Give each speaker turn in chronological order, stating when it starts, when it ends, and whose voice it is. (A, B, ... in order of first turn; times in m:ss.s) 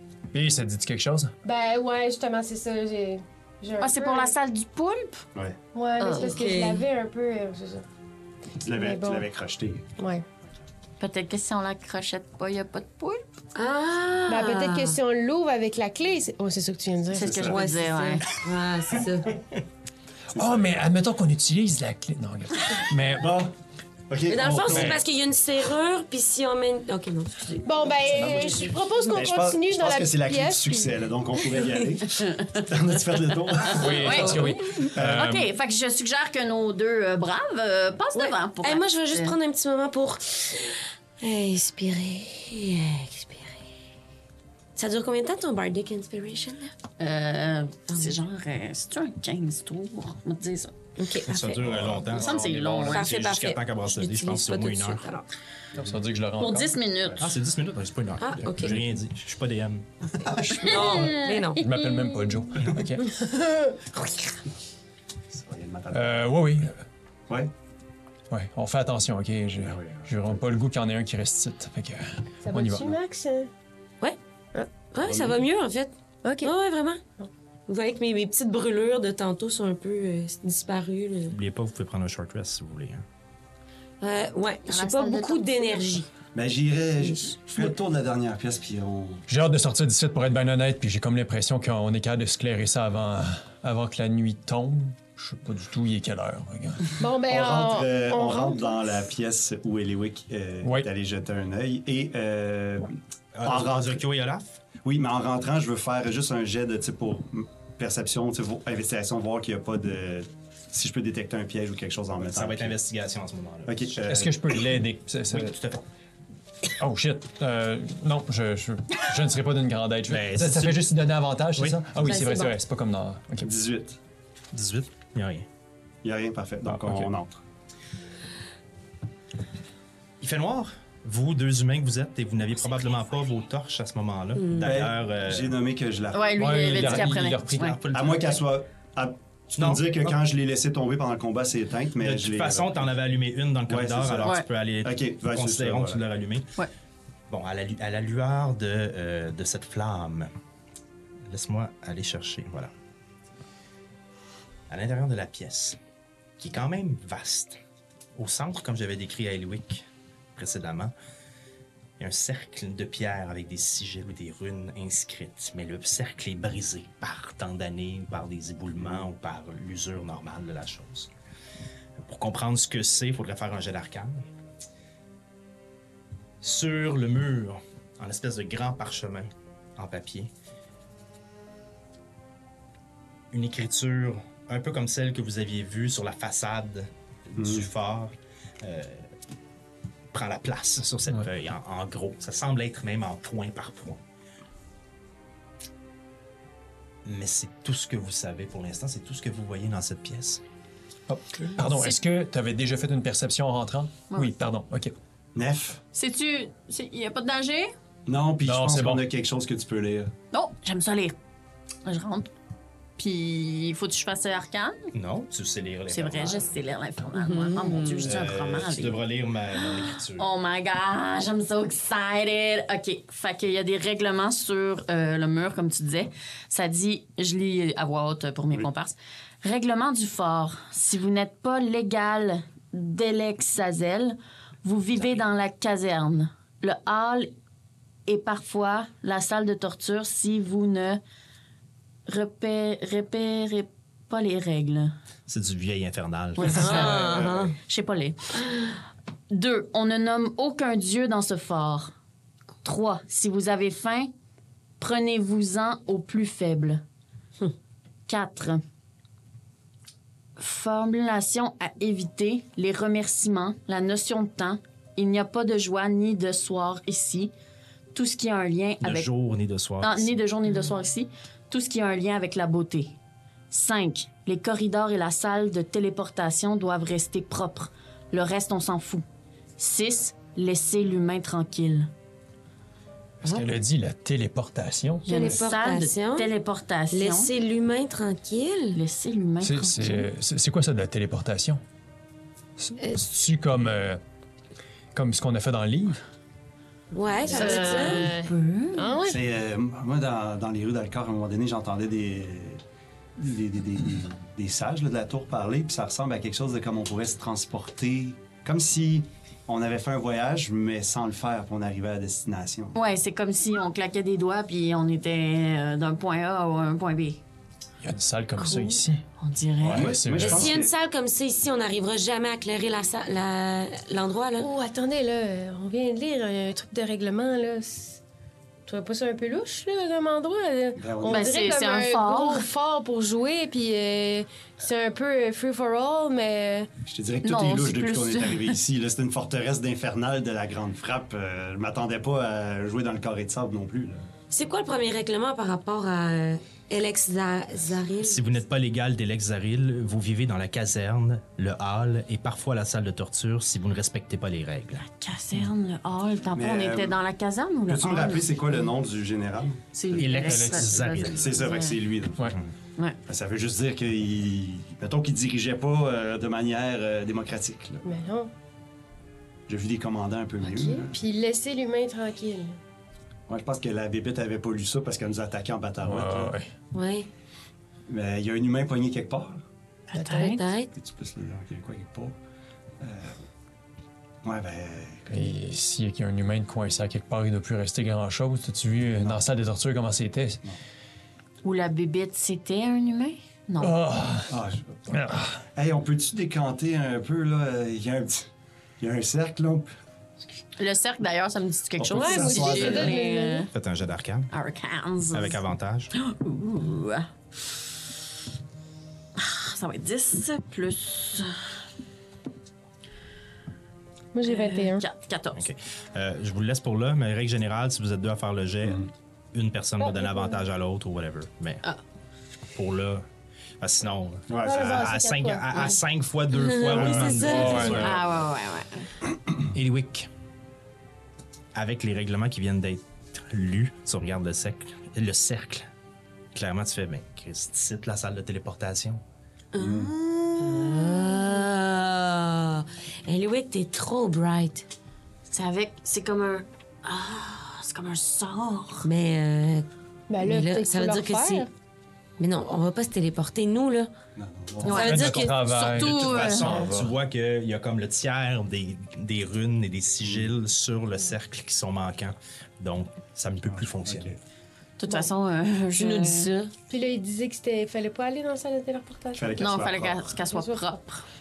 0:00.3-0:01.3 A
0:01.4-0:04.3 B
0:03.8-0:05.2 C
0:05.7-0:07.8 B
0:06.0-0:06.4 C
0:06.1-0:06.8 D
0:08.6-0:09.9 E
0:08.7-0:09.3 B
0:10.0-0:10.2 B
0:11.0-0:13.2 C
0:13.5-0:15.0 D
0:14.3-0:17.5 B
0:17.1-0:17.6 E
0:17.2-0:18.2 C
0:17.2-0:19.3 D
0:20.3-0:23.4 A
0:20.4-0:20.7 E
0:23.2-0:23.5 E
0:24.1-0:25.0 E
0:24.3-0:28.7 D
0:24.7-0:25.0 A
0:27.6-0:31.0 B
0:29.1-0:34.4 E
0:32.2-0:32.7 C
0:33.5-0:39.4 C
0:33.7-0:35.5 A
0:34.2-0:34.6 D
0:34.9-0:35.3 E
0:38.1-0:43.6 D
0:44.8-0:46.7 D
0:47.0-0:50.7 C
0:51.0-0:51.6 D
0:51.2-0:55.1 F
0:52.1-0:53.1 C
0:52.2-0:52.7 A
0:52.8-0:55.2 D
0:55.7-0:56.7 A
0:56.4-0:57.2 C
0:57.2-0:59.9 F
0:58.2-0:58.8 D
1:00.2-1:00.8 E
1:00.4-1:01.5 C
1:00.6-1:01.7 D
1:00.8-1:03.1 A
1:03.2-1:03.8 B
1:05.3-1:06.3 E
1:05.9-1:06.8 A
1:08.3-1:12.9 A
1:09.6-1:10.4 E
1:12.4-1:13.5 B
1:14.8-1:17.0 D
1:16.2-1:16.5 B
1:17.7-1:21.4 D
1:21.3-1:23.0 F
1:24.0-1:26.1 D
1:24.7-1:25.8 C
1:26.3-1:29.2 E
1:27.0-1:27.7 D
1:29.3-1:37.0 A
1:37.0-1:38.8 B
1:37.3-1:44.0 E
1:40.6-1:40.9 A
1:43.3-1:44.6 F
1:44.8-1:52.8 E
1:52.2-1:54.2 F
1:53.6-1:54.3 E
1:54.1-1:55.6 A
1:55.3-1:55.8 F
1:56.7-2:03.5 A
2:00.1-2:00.9 F
2:02.1-2:02.5 D
2:03.4-2:04.0 E
2:04.5-2:05.4 F
2:06.0-2:07.4 E
2:06.6-2:07.1 A
2:10.2-2:15.6 F
2:14.4-2:14.7 D
2:14.6-2:17.1 E
2:16.1-2:17.8 C
2:16.4-2:17.8 A
2:16.9-2:18.4 F
2:17.9-2:22.9 E
2:19.6-2:20.2 F
2:22.0-2:26.5 F
2:23.7-2:26.0 E
2:27.3-2:30.3 F
2:31.3-2:32.7 F
2:34.7-2:35.8 F
2:36.4-2:37.6 F
2:38.2-2:40.9 F
2:42.0-2:51.1 F
2:48.8-2:49.1 E
2:52.0-2:54.2 F
2:56.4-3:00.3 F
3:03.3-3:09.1 F
3:07.4-3:07.7 E
3:10.1-3:14.0 F
3:17.0-3:20.4 F
3:21.1-3:24.9 A
3:21.6-3:22.0 C
3:25.3-3:25.8 E
3:25.9-3:27.7 C
3:28.0-3:30.1 E
3:28.4-3:29.1 A
3:30.3-3:31.2 C
3:31.8-3:32.3 C
3:33.0-3:34.9 C
3:34.9-3:36.5 F
3:35.9-3:57.3 C
3:37.2-3:38.1 D
3:38.0-3:40.3 F
3:58.0-4:01.0 C
4:02.0-4:05.0 C
4:05.3-4:06.8 F
4:06.4-4:08.4 C
4:06.4-4:07.5 D
4:06.5-4:07.5 E
4:09.3-4:12.0 C
4:12.6-4:14.1 C
4:14.8-4:16.8 C
4:18.1-4:18.6 C
4:20.4-4:27.3 C
4:27.9-4:29.1 C
4:28.8-4:30.1 F
4:29.8-4:33.0 C
4:33.5-4:39.0 C
4:39.6-4:41.9 C
4:43.2-4:45.3 A
4:45.0-4:47.3 C
4:45.0-4:46.3 D
4:46.9-4:48.8 D
4:48.7-4:50.1 C
4:49.4-4:51.6 A
4:52.6-4:54.0 A
4:54.9-4:56.0 A
4:56.9-4:58.1 D
4:57.3-4:59.0 C
4:57.3-4:59.2 B
4:59.1-5:02.6 E
5:03.2-5:12.8 E
5:12.7-5:17.2 C
5:17.8-5:19.0 A
5:18.4-5:20.0 C
5:19.6-5:20.5 A
5:19.7-5:20.7 E
5:20.1-5:24.5 D
5:24.4-5:28.0 B
5:28.6-5:36.7 B
5:30.8-5:31.4 E
5:31.1-5:32.5 C
5:36.8-5:44.1 E
5:37.2-5:38.6 C
5:44.3-5:48.2 D
5:48.0-5:54.8 F
5:54.8-5:58.5 C
5:56.3-5:56.9 E
5:57.7-5:59.6 E
5:59.7-6:01.8 C
5:59.9-6:01.4 F
6:00.1-6:00.8 A
6:01.1-6:02.3 E
6:03.1-6:07.8 E
6:07.8-6:08.3 B
6:09.5-6:11.0 E
6:10.4-6:12.6 B
6:13.3-6:16.4 E
6:15.8-6:16.5 A
6:16.7-6:17.1 D
6:17.9-6:19.4 E
6:19.9-6:20.4 C
6:20.0-6:20.3 B
6:20.1-6:20.7 D
6:20.7-6:22.2 E
6:22.8-6:23.2 E
6:24.2-6:25.3 E
6:25.1-6:30.4 A
6:28.8-6:29.2 E
6:31.4-6:33.8 C
6:33.6-6:34.4 A
6:34.3-6:34.8 E
6:34.9-6:35.4 A
6:35.5-6:38.3 E
6:38.8-6:39.7 E
6:40.6-6:43.5 C
6:41.8-6:43.0 E
6:41.9-6:43.5 B
6:43.5-6:44.3 F
6:44.3-6:45.4 C
6:45.1-6:45.9 F
6:45.9-6:47.7 C
6:49.2-6:51.5 C
6:54.1-6:54.8 B
6:54.2-6:55.4 C
6:55.3-7:01.6 F
6:59.9-7:00.4 B
7:02.5-7:03.0 F
7:03.6-7:08.0 F
7:04.3-7:04.7 E
7:04.4-7:05.8 B
7:06.4-7:07.8 D
7:06.7-7:07.5 E
7:06.7-7:08.0 A
7:07.8-7:08.9 C
7:09.5-7:10.1 F
7:11.5-7:15.7 F
7:16.3-7:19.0 F
7:19.6-7:24.6 D
7:19.6-7:19.9 E
7:20.4-7:21.1 C
7:25.3-7:28.9 C
7:28.8-7:29.6 D
7:30.1-7:31.5 B
7:30.2-7:31.4 D
7:32.2-7:33.9 D
7:34.2-7:35.0 E
7:34.6-7:36.7 C
7:34.6-7:36.9 A
7:34.7-7:35.4 D
7:35.6-7:44.1 F
7:40.0-7:40.3 E
7:43.4-7:44.2 E
7:44.8-7:46.3 C
7:45.8-7:46.5 D
7:46.7-7:49.4 B
7:49.1-7:50.1 E
7:49.4-7:51.0 C
7:50.2-7:50.7 B